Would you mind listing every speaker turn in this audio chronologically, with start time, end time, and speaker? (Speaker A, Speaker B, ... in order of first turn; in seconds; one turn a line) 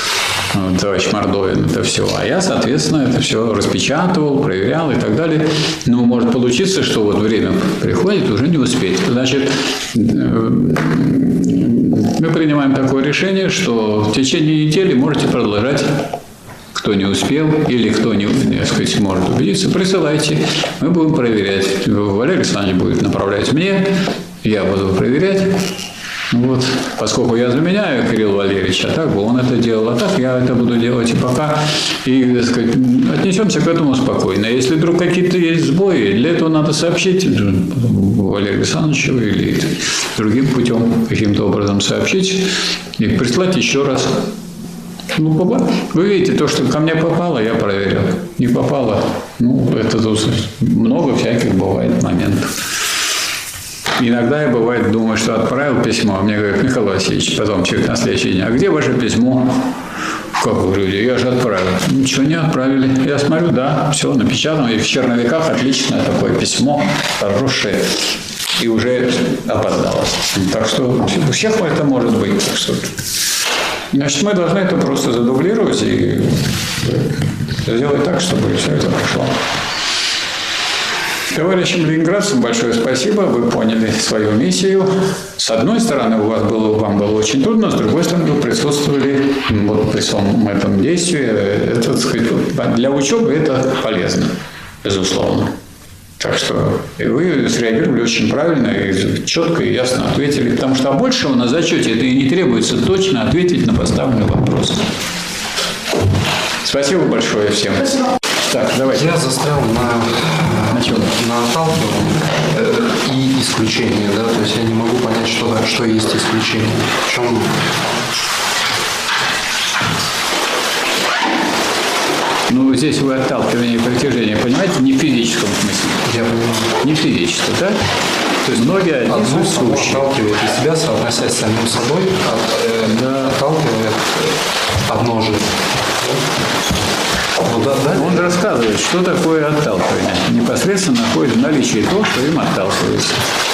Speaker A: 0.5-15.9
Speaker A: 16.7-25.6
Speaker A: 26.3-44.2
Speaker A: 45.1-52.5
Speaker A: 54.0-59.7
Speaker A: 60.4-68.0
Speaker A: 68.6-72.9
Speaker A: 73.9-77.0
Speaker A: 77.6-79.3
Speaker A: 81.3-95.5
Speaker A: 96.2-104.8
Speaker A: 106.6-109.1
Speaker B: 108.9-117.6
Speaker A: 110.7-111.1
Speaker A: 122.5-127.8
Speaker B: 126.1-126.7
Speaker B: 128.5-134.3
Speaker A: 128.5-130.1
Speaker A: 132.8-133.4
Speaker B: 134.9-135.5
Speaker B: 137.4-138.4
Speaker A: 137.9-143.2